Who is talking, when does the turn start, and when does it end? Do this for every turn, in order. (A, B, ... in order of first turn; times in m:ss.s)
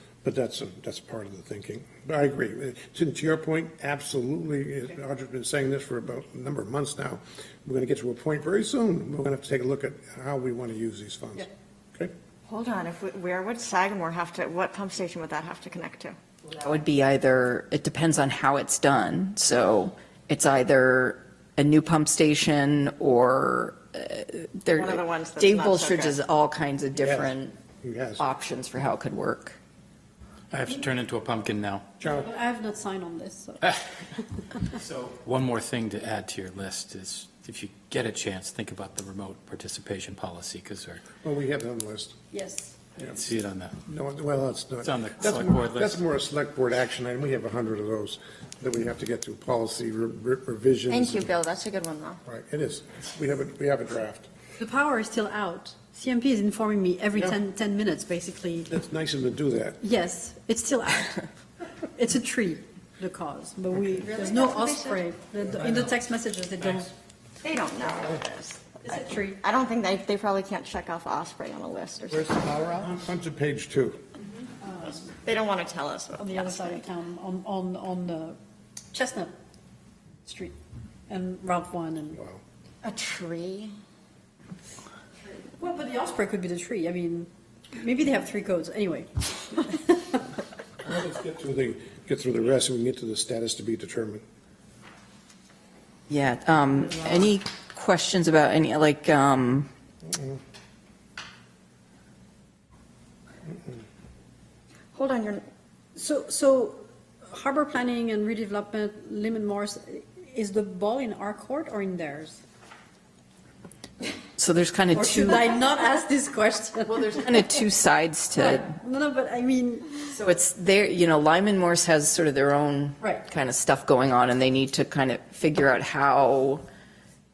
0:00.2-0:12.1 A
0:12.5-0:16.2 B
0:16.5-0:27.6 C
0:24.7-0:26.2 B
0:27.0-0:28.2 A
0:28.2-0:29.6 C
0:30.5-0:31.9 D
0:32.0-0:32.3 A
0:32.1-0:33.7 E
0:34.8-0:41.0 D
0:41.2-0:42.2 A
0:42.3-0:42.8 E
0:43.0-0:43.7 D
0:43.8-0:51.3 A
0:44.8-0:46.0 D
0:50.9-0:52.2 B
0:52.2-0:54.3 A
0:54.6-0:58.7 E
0:58.7-0:59.8 A
0:59.8-1:01.2 E
1:01.9-1:06.9 E
1:04.1-1:05.0 B
1:07.4-1:12.4 B
1:08.8-1:09.4 E
1:12.1-1:14.0 A
1:14.6-1:15.1 E
1:15.0-1:16.7 B
1:16.2-1:18.4 E
1:18.9-1:19.3 E
1:20.2-1:20.5 E
1:21.1-1:22.2 E
1:22.1-1:22.4 A
1:22.8-1:23.7 B
1:25.4-1:30.2 E
1:30.8-1:34.2 A
1:36.1-1:39.7 C
1:40.1-1:40.4 A
1:44.9-1:45.4 B
1:45.9-1:52.4 E
1:54.4-1:55.5 C
1:54.9-1:57.4 E
1:56.9-1:58.7 C
1:58.4-2:00.0 E
2:00.1-2:06.6 C